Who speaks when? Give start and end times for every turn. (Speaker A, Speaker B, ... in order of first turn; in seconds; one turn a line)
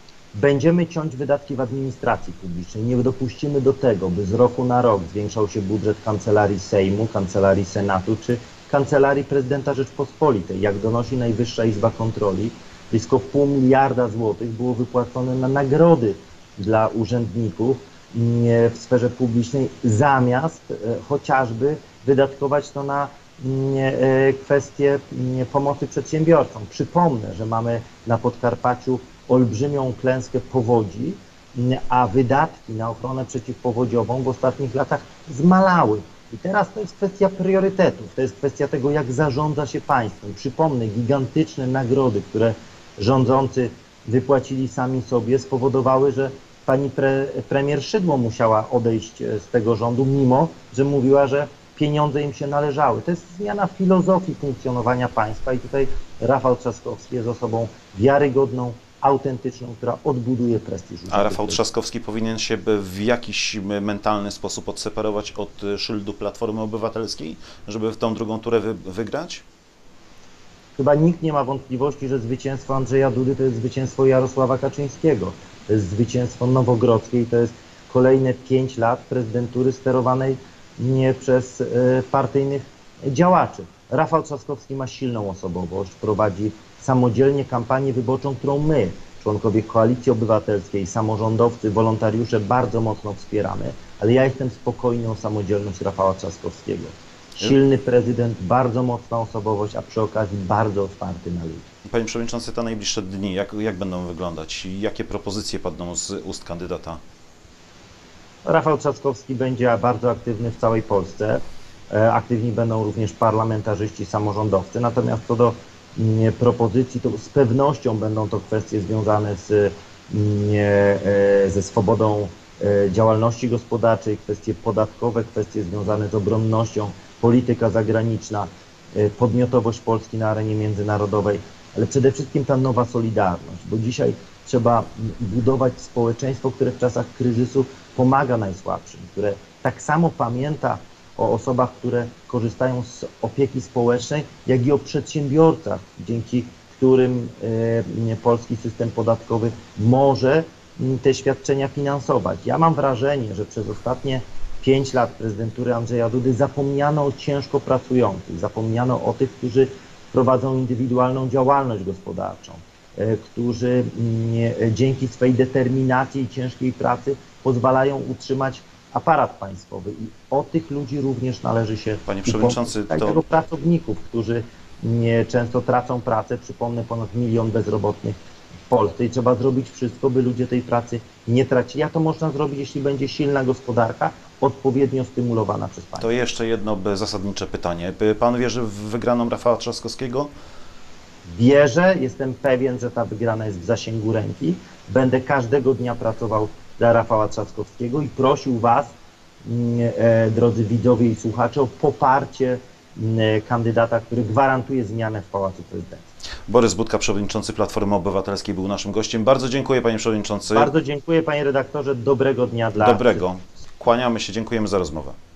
Speaker A: 0.3-61.6
Speaker B: 61.1-69.4
Speaker A: 70.8-101.7
Speaker B: 101.8-107.0
Speaker A: 108.4-178.2
Speaker B: 172.1-173.2
Speaker A: 178.7-186.1
Speaker B: 186.0-190.3
Speaker A: 191.3-198.9
Speaker A: 199.4-206.1
Speaker B: 206.5-210.7
Speaker A: 210.5-213.2
Speaker B: 212.8-215.2